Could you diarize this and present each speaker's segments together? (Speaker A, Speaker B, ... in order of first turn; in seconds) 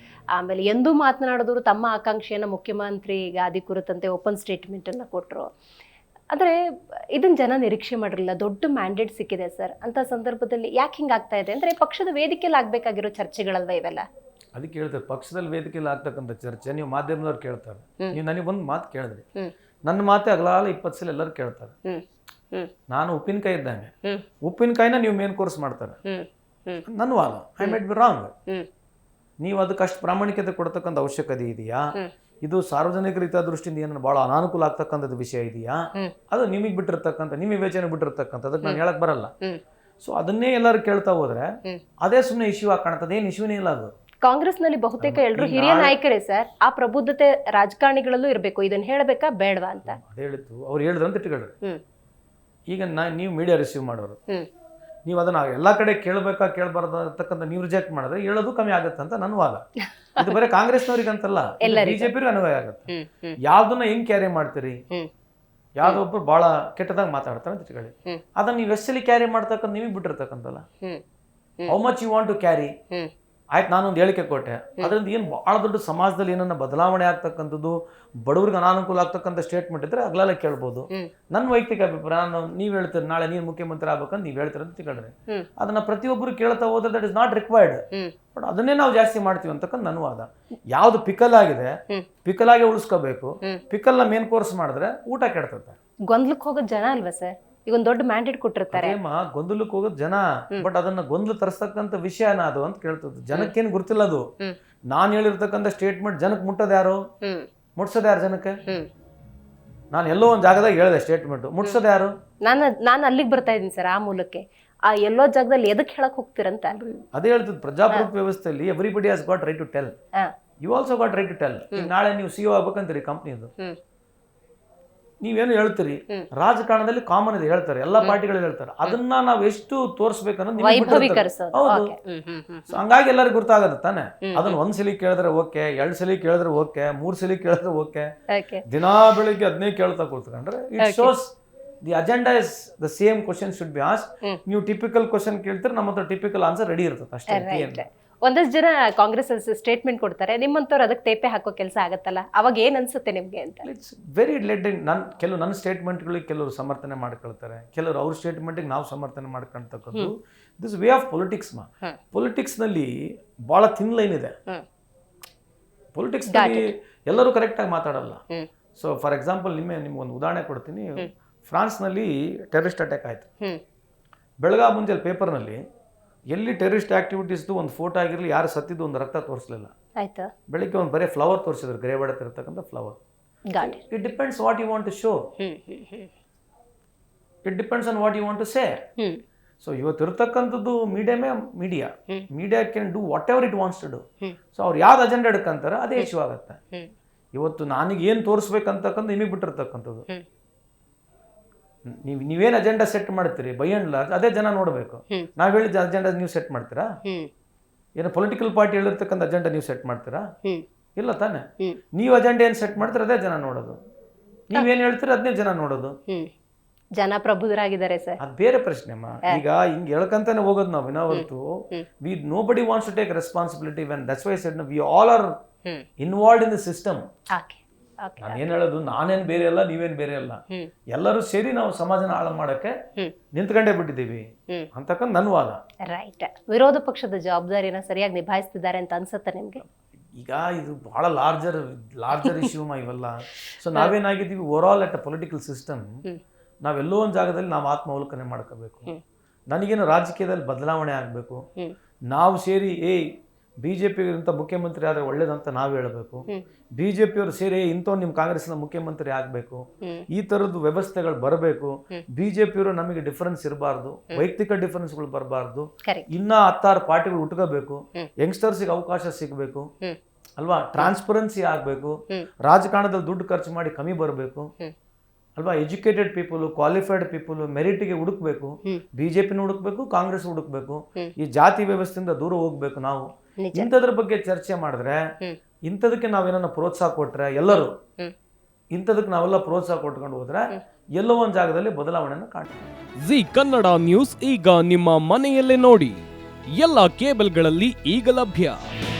Speaker A: 0.4-5.5, 7.1-14.0, 26.1-26.8, 44.2-50.0, 61.6-62.1, 62.9-63.4, 96.1-99.0, 112.4-117.0, 130.6-132.8, 134.2-134.6, 138.3-138.6, 140.8-141.1, 147.3-153.7, 166.3-166.7, 180.0-180.3, 183.5-183.8, 185.4-186.1, 217.0-218.2, 221.1-221.8, 227.3-228.4, 235.9-239.6, 283.4-283.7, 287.5-288.1
Speaker B: 14.6-19.2, 19.9-21.7, 22.9-23.9, 24.4-26.0, 26.8-28.3, 29.4-31.9, 32.4-35.8, 36.3-39.3, 40.0-41.5, 42.0-43.9, 45.0-46.0, 49.9-51.5, 52.7-54.2, 55.0-59.6, 60.2-62.9, 63.4-64.8, 65.8-70.6, 71.7-72.7, 73.5-87.8, 88.3-91.7, 92.2-95.8, 98.7-104.2, 104.9-107.0, 107.8-108.6, 109.9-112.1, 117.1-119.9, 120.6-123.5, 125.2-131.9, 132.7-138.1, 138.7-147.8, 153.6-164.3, 165.9-168.2, 168.8-173.3, 174.4-175.6, 176.3-179.7, 180.5-183.0, 183.6-185.2, 187.4-188.8, 189.6-196.6, 197.3-200.0, 201.9-206.9, 208.0-210.2, 211.0-211.4, 211.9-213.8, 214.5-215.9, 218.2-225.3, 226.0-227.0, 228.2-232.7, 233.3-235.6, 240.1-245.9, 246.6-248.9, 249.5-251.4, 252.1-253.0, 253.6-269.7, 270.4-274.5, 275.4-285.0, 285.6-287.7, 288.7-292.6
Speaker C: 293.0-298.6